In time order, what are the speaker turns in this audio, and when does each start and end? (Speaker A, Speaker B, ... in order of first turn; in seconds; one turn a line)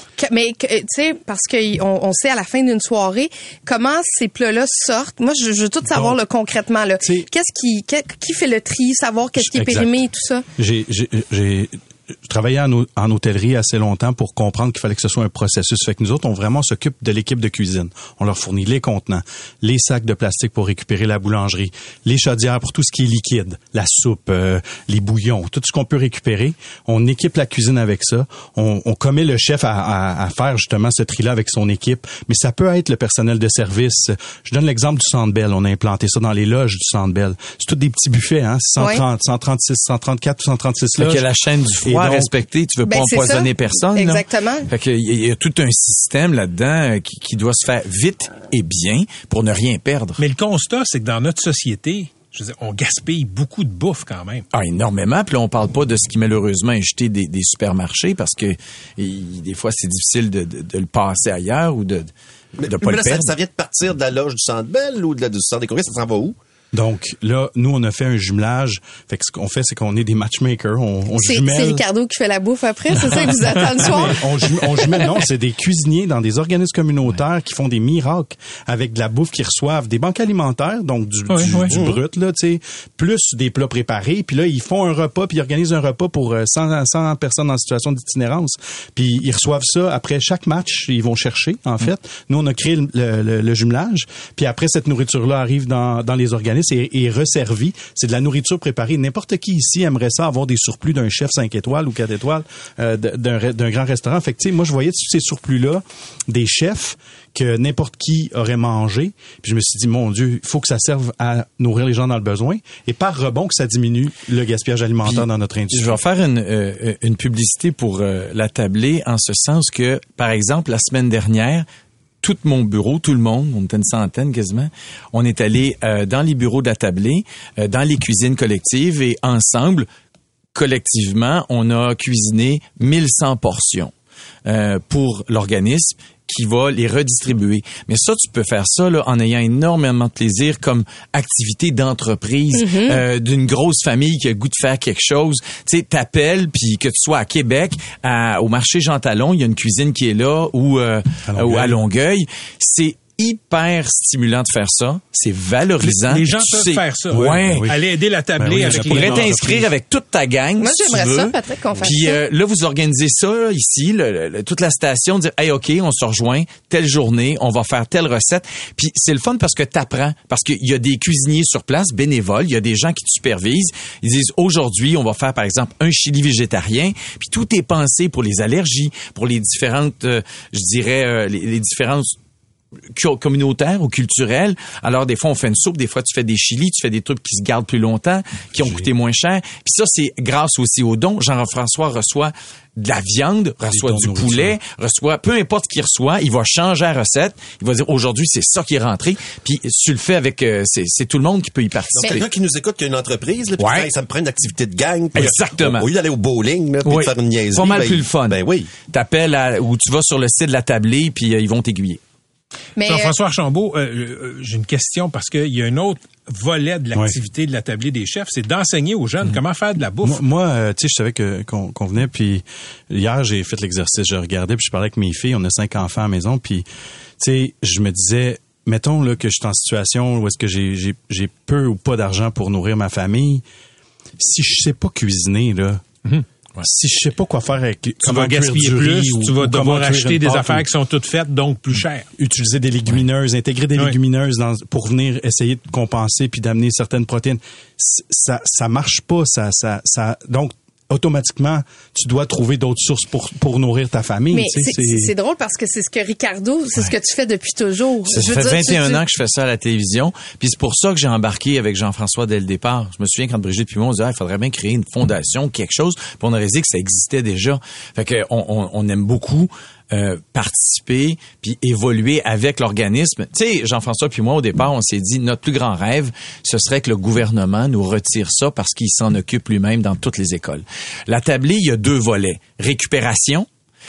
Speaker A: 0.2-10.4
Speaker B: 5.9-6.2
Speaker B: 9.4-9.9
Speaker B: 10.6-41.3
Speaker A: 38.8-39.0
Speaker C: 40.9-50.2
Speaker B: 41.8-42.3
Speaker A: 42.9-44.7
Speaker D: 50.2-54.5
Speaker C: 54.5-62.1
Speaker E: 62.6-66.4
Speaker C: 62.6-63.4
Speaker B: 66.7-71.8
Speaker A: 71.2-74.3
Speaker B: 73.4-116.0
Speaker D: 81.3-81.7
Speaker E: 81.7-82.0
Speaker C: 115.0-121.7
Speaker C: 122.2-129.9
Speaker C: 130.6-133.9
Speaker C: 134.4-157.7
Speaker A: 142.5-143.0
Speaker B: 151.3-151.8
Speaker D: 155.8-159.6
Speaker B: 157.1-157.8
Speaker B: 158.4-159.7
Speaker C: 158.5-182.2
Speaker A: 160.6-162.2
Speaker C: 182.9-202.3
Speaker B: 188.6-188.9
Speaker B: 193.6-194.6
Speaker E: 202.0-208.7
Speaker C: 203.6-203.9
Speaker C: 205.2-205.9
Speaker C: 206.8-212.0
Speaker A: 212.8-213.2
Speaker D: 212.8-220.2
Speaker B: 220.0-226.7
Speaker B: 227.2-233.4
Speaker B: 234.2-236.0
Speaker B: 236.6-240.7
Speaker D: 238.0-242.1
Speaker B: 242.2-255.1
Speaker A: 254.3-259.0
Speaker C: 258.1-283.5